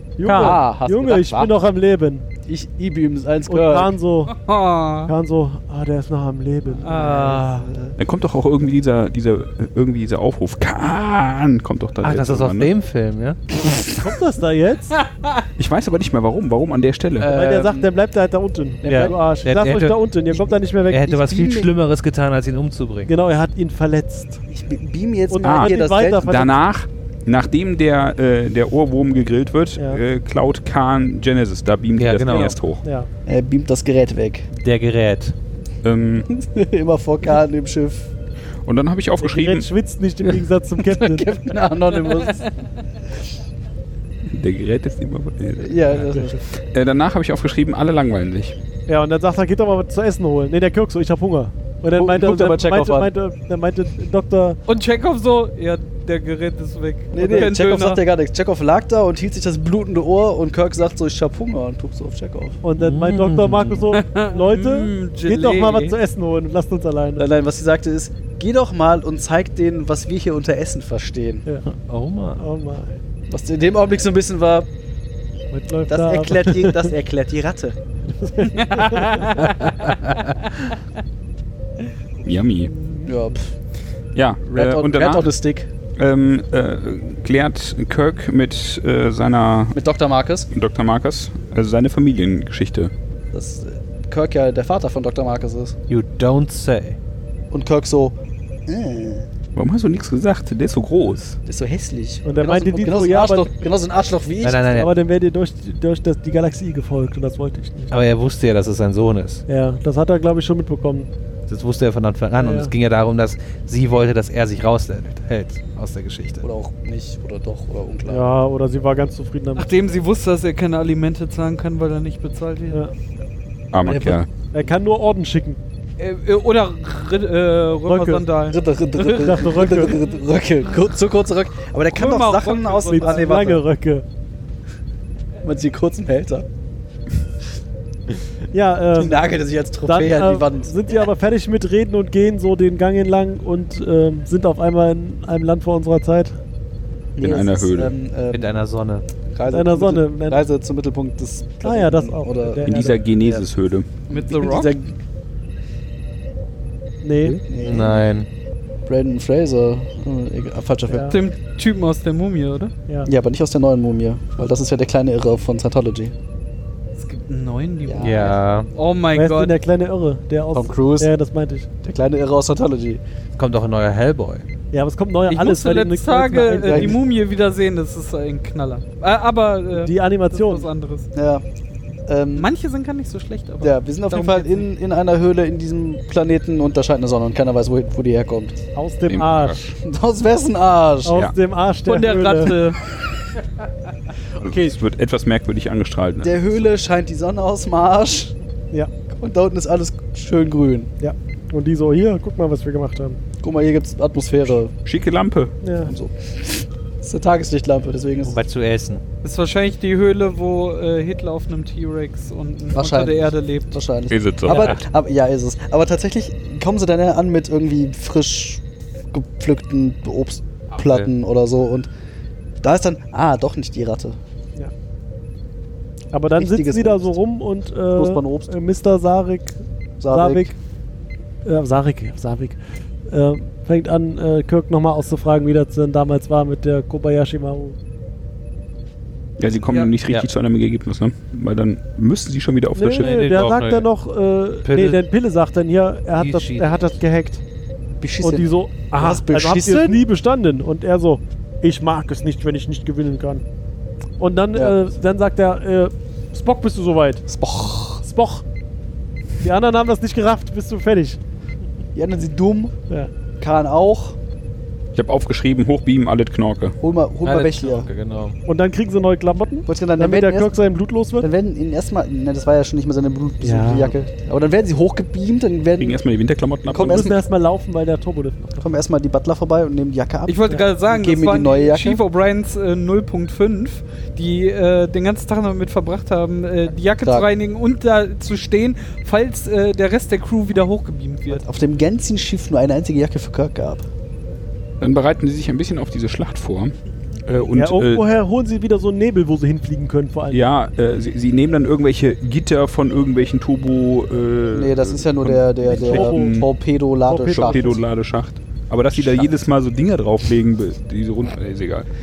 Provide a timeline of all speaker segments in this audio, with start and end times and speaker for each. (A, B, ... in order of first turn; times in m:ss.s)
0:00.2-0:02.3 A
0:00.2-0:00.6 B
0:00.2-0:01.6 C
0:02.5-0:03.9 C
0:03.5-0:04.4 A
0:04.3-0:05.1 B
0:05.1-0:07.4 A
0:06.8-0:07.7 B
0:06.8-0:08.0 C
0:08.0-0:12.7 D
0:12.0-0:13.4 E
0:13.9-0:15.0 A
0:15.0-0:15.4 B
0:15.6-0:17.4 D
0:17.2-0:17.9 C
0:17.3-0:21.1 A
0:18.8-0:19.2 C
0:18.9-0:20.0 E
0:20.9-0:23.1 E
0:21.1-0:21.7 C
0:23.1-0:24.4 A
0:24.5-0:26.4 C
0:25.3-0:26.6 A
0:25.4-0:32.8 D
0:32.0-0:32.6 E
0:32.8-0:33.1 A
0:33.3-0:34.5 C
0:34.5-0:35.3 E
0:35.8-0:36.3 D
0:36.3-0:38.1 C
0:38.7-0:39.7 D
0:39.2-0:41.4 A
0:40.8-0:42.4 C
0:42.1-0:42.5 B
0:44.3-0:46.0 D
0:45.6-0:46.4 C
0:46.7-0:48.6 D
0:48.9-0:54.6 A
0:51.9-0:53.1 C
0:54.7-0:58.0 B
0:57.1-1:02.6 C
1:02.6-1:07.3 A
1:02.8-1:03.9 E
1:03.9-1:06.0 B
1:07.2-1:11.5 C
1:11.9-1:12.4 E
1:12.4-1:13.0 A
1:13.3-1:14.7 C
1:15.5-1:16.9 A
1:15.9-1:17.8 C
1:18.2-1:19.3 A
1:18.5-1:20.7 B
1:22.2-1:22.7 D
1:22.2-1:23.1 B
1:23.0-1:23.5 C
1:24.2-1:25.3 D
1:24.5-1:25.7 C
1:26.0-1:29.8 D
1:29.7-1:30.5 C
1:30.5-1:32.9 D
1:33.3-1:35.8 C
1:35.9-1:37.0 E
1:37.5-1:38.2 C
1:38.7-1:39.3 C
1:39.6-1:41.4 D
1:41.5-1:44.9 C
1:42.2-1:43.5 A
1:44.4-1:44.9 E
1:44.8-1:47.9 A
1:47.9-1:49.4 E
1:49.5-1:51.1 A
1:51.5-1:56.5 E
1:52.4-1:52.7 A
1:56.4-1:58.3 C
1:58.1-1:59.7 A
1:59.6-2:02.8 B
2:03.7-2:04.3 D
2:03.8-2:04.2 C
2:04.5-2:05.6 A
2:06.0-2:09.8 B
2:07.9-2:08.2 A
2:08.5-2:13.6 C
2:09.1-2:10.0 A
2:11.9-2:13.3 B
2:12.9-2:14.0 A
2:15.4-2:16.5 C
2:18.5-2:19.2 A
2:18.9-2:20.7 C
2:19.8-2:26.4 A
2:27.2-2:28.5 C
2:27.2-2:28.0 D
2:28.3-2:29.0 E
2:29.3-2:33.4 C
2:29.5-2:30.4 A
2:31.6-2:33.0 A
2:32.6-2:33.9 D
2:34.1-2:35.0 C
2:34.1-2:34.8 B
2:37.0-2:37.4 A
2:37.2-2:38.1 C
2:37.6-2:38.3 E
2:38.9-2:41.2 C
2:40.9-2:41.2 A
2:41.1-2:42.7 B
2:43.0-2:46.1 C
2:47.0-2:49.6 B
2:47.9-2:48.4 C
2:48.0-2:48.7 E
2:49.2-2:51.7 A
2:50.5-2:51.1 C
2:51.8-2:53.0 C
2:53.4-2:54.4 E
2:54.7-2:57.0 A
2:55.3-3:01.1 B
2:56.6-2:57.0 C
2:59.8-3:00.7 A
3:01.1-3:01.4 C
3:02.1-3:02.5 C
3:02.4-3:04.7 B
3:03.6-3:08.6 C
3:08.8-3:09.7 A
3:09.1-3:09.8 D
3:09.8-3:11.2 C
3:11.0-3:12.6 A
3:11.9-3:12.8 B
3:14.4-3:16.7 D
3:16.2-3:18.4 C
3:19.1-3:20.9 C
3:21.0-3:23.2 A
3:23.4-3:24.7 C
3:24.8-3:25.6 D
3:25.6-3:25.9 A
3:25.8-3:28.4 C
3:28.2-3:29.0 E
3:29.2-3:33.8 B
3:32.7-3:41.9 C
3:34.1-3:34.8 D
3:34.5-3:34.8 E
3:42.6-3:44.2 C
3:46.1-3:49.6 A
3:46.4-3:47.2 C
3:47.9-3:48.5 C
3:50.0-3:50.6 C
3:50.1-3:50.5 A
3:51.4-3:57.8 A
3:59.4-4:03.2 D
4:02.8-4:07.4 A
4:02.9-4:03.9 E
4:04.6-4:05.0 E
4:06.2-4:07.0 E
4:08.0-4:10.0 C
4:08.2-4:13.4 A
4:14.2-4:17.2 A
4:14.5-4:14.8 C
4:17.3-4:18.0 C
4:18.0-4:18.4 A
4:19.4-4:21.2 A
4:22.0-4:22.7 C
4:23.4-4:24.2 C
4:25.0-4:26.8 D
4:26.8-4:27.9 C
4:27.2-4:28.4 E
4:28.5-4:31.3 A
4:29.7-4:30.6 C
4:31.2-4:36.0 C
4:33.4-4:34.0 A
4:35.8-4:37.2 D
4:36.7-4:37.2 C
4:36.7-4:38.6 A
4:38.6-4:42.0 C
4:40.3-4:51.4 B
4:47.0-4:47.3 C
4:51.3-4:53.9 C
4:54.8-4:56.7 D
4:57.2-4:58.0 D
4:57.6-5:00.4 A
5:00.3-5:06.5 D
5:04.5-5:07.7 C
5:05.7-5:06.4 A
5:07.1-5:07.8 A
5:07.2-5:11.9 D
5:08.9-5:09.3 C